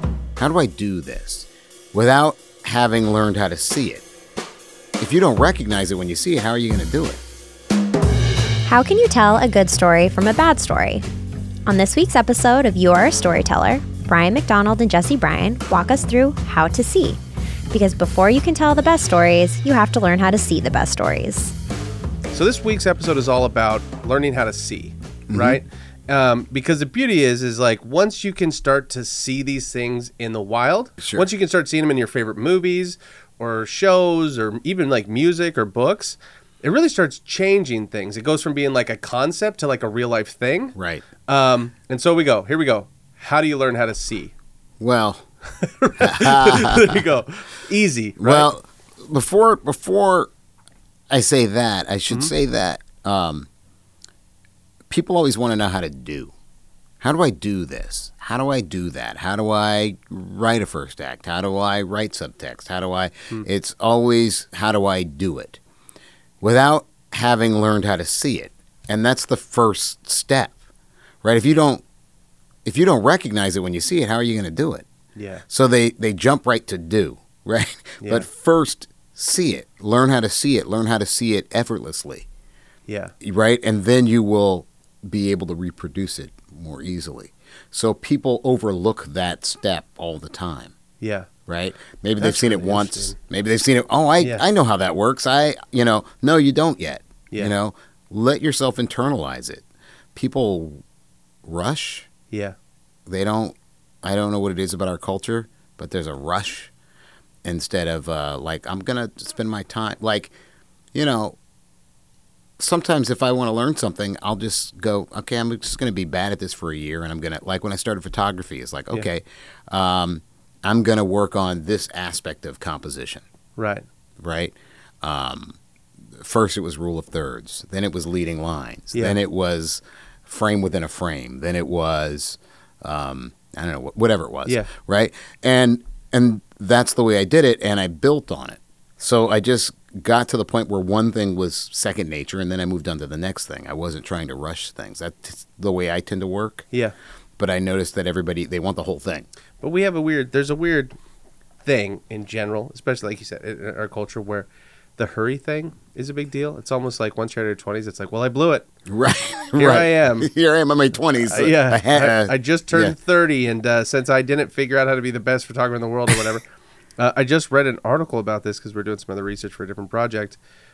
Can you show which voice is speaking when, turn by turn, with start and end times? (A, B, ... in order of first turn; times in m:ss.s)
0:00.4-0:04.0 A
0:05.0-0:07.2 A
0:08.6-0:11.0 B
0:11.6-0:17.2 B
0:17.7-0:21.5 B
0:22.3-0:44.3 C
0:25.3-0:25.6 A
0:31.0-0:31.2 A
0:40.8-0:41.0 A
0:44.8-0:45.2 A
0:45.6-0:48.5 C
0:46.0-0:47.0 A
0:48.2-0:50.3 A
0:51.1-0:53.5 A
0:54.9-0:56.3 A
0:57.0-1:05.6 A
1:06.4-1:10.6 A
1:11.2-1:11.8 A
1:12.6-1:14.8 A
1:15.1-1:15.4 C
1:15.5-1:22.2 A
1:22.9-1:23.1 C
1:23.2-1:30.7 A
1:31.0-1:31.3 C
1:31.5-1:40.8 A
1:32.2-1:33.2 C
1:34.2-1:34.4 C
1:41.4-1:42.1 A
1:42.3-1:42.6 C
1:43.1-1:46.7 A
1:47.4-1:50.3 A
1:50.9-1:51.4 A
1:52.6-2:03.2 A
2:03.6-2:03.8 C
2:04.2-2:05.6 A
2:06.2-2:26.6 A
2:27.4-2:29.3 A
2:29.6-2:30.9 C
2:31.6-2:38.7 C
2:38.9-2:42.9 A
2:39.6-2:40.3 C
2:41.2-2:46.4 C
2:47.0-2:50.4 C